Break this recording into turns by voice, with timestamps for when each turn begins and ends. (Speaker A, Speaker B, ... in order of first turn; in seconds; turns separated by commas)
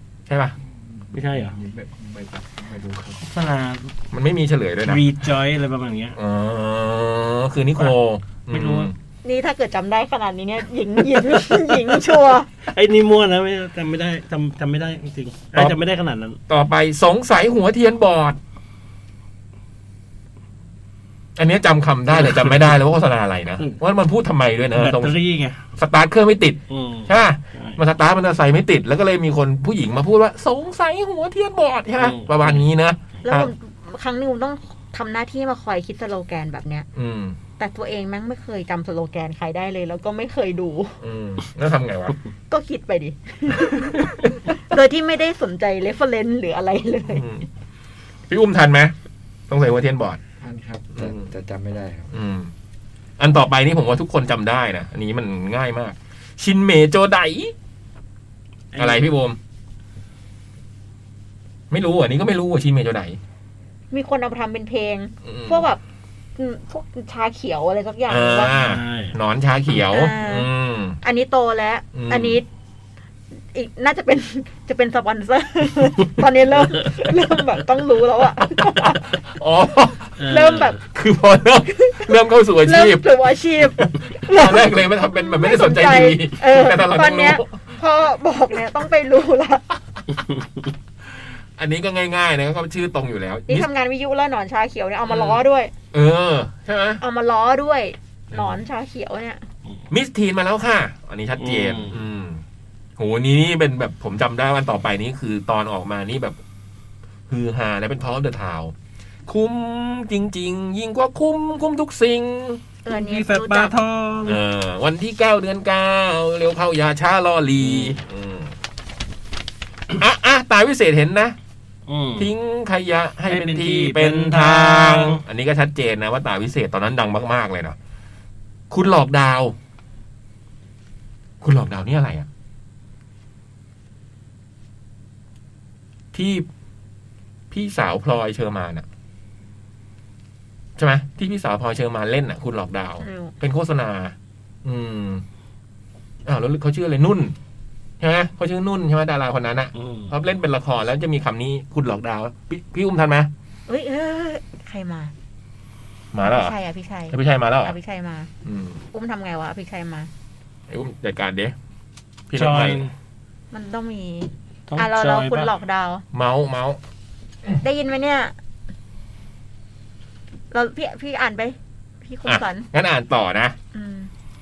Speaker A: 0.3-0.5, Speaker B: 0.6-3.3, Speaker C: 1.1-1.5, Speaker C: 3.2-3.9, Speaker A: 4.1-5.0, Speaker C: 4.8-6.2, Speaker A: 6.2-8.9, Speaker C: 8.5-8.9, Speaker D: 9.2-12.5, Speaker C: 11.2-11.8, Speaker C: 12.6-16.4, Speaker A: 16.5-18.4, Speaker A: 21.4-25.1, Speaker C: 22.2-22.5, Speaker C: 24.7-25.6, Speaker A: 25.8-33.5, Speaker C: 26.7-27.8, Speaker C: 32.0-32.6, Speaker D: 33.2-36.9, Speaker A: 36.9-37.4, Speaker D: 37.6-41.0, Speaker A: 41.0-42.1, Speaker D: 42.5-47.3, Speaker A: 43.6-44.4, Speaker A: 47.1-47.5, Speaker A: 48.3-48.9, Speaker A: 49.5-50.2, Speaker B: 50.4-52.1, Speaker A: 50.9-51.3, Speaker A: 52.1-52.5, Speaker A: 53.2-57.5, Speaker C: 58.7-59.0, Speaker A: 58.8-59.4, Speaker A: 61.7-63.2, Speaker D: 63.9-65.8, Speaker A: 65.2-65.7, Speaker D: 66.4-68.5, Speaker A: 68.1-71.0, Speaker C: 68.5-69.1, Speaker D: 69.9-72.5, Speaker A: 71.9-72.4, Speaker D: 73.5-79.0, Speaker A: 79.2-80.2, Speaker C: 80.2-80.8, Speaker D: 80.3-80.8, Speaker A: 80.8-83.1, Speaker D: 81.8-82.1, Speaker D: 82.6-89.7, Speaker A: 83.8-87.4, Speaker A: 91.6-93.7, Speaker D: 93.5-95.7, Speaker A: 95.1-95.4, Speaker A: 95.9-97.0, Speaker D: 97.0-99.4, Speaker A: 99.9-102.4, Speaker C: 101.4-102.0, Speaker A: 103.0-106.4, Speaker A: 107.3-108.7, Speaker A: 109.3-112.6, Speaker D: 112.8-113.7, Speaker C: 112.9-114.4, Speaker A: 114.2-118.5, Speaker C: 117.6-118.0, Speaker A: 119.9-121.4, Speaker C: 121.9-122.3, Speaker A: 122.2-127.8, Speaker C: 123.3-125.2, Speaker A: 128.7-129.5, Speaker A: 131.4-132.3, Speaker A: 136.1-136.5, Speaker A: 137.5-138.8, Speaker A: 140.8-145.2, Speaker D: 143.0-143.3, Speaker A: 146.2-147.3, Speaker A: 148.0-153.3, Speaker C: 149.7-150.1, Speaker D: 153.7-155.1, Speaker A: 156.1-156.6, Speaker D: 156.2-158.3, Speaker A: 157.1-157.7, Speaker A: 158.4-158.8, Speaker D: 158.9-160.1, Speaker A: 160.7-161.5, Speaker A: 162.3-162.8, Speaker C: 162.3-162.9, Speaker D: 163.5-166.0, Speaker C: 164.7-165.5, Speaker A: 166.1-166.8, Speaker D: 167.6-168.3, Speaker D: 170.5-172.7, Speaker A: 172.2-173.6, Speaker D: 173.7-174.1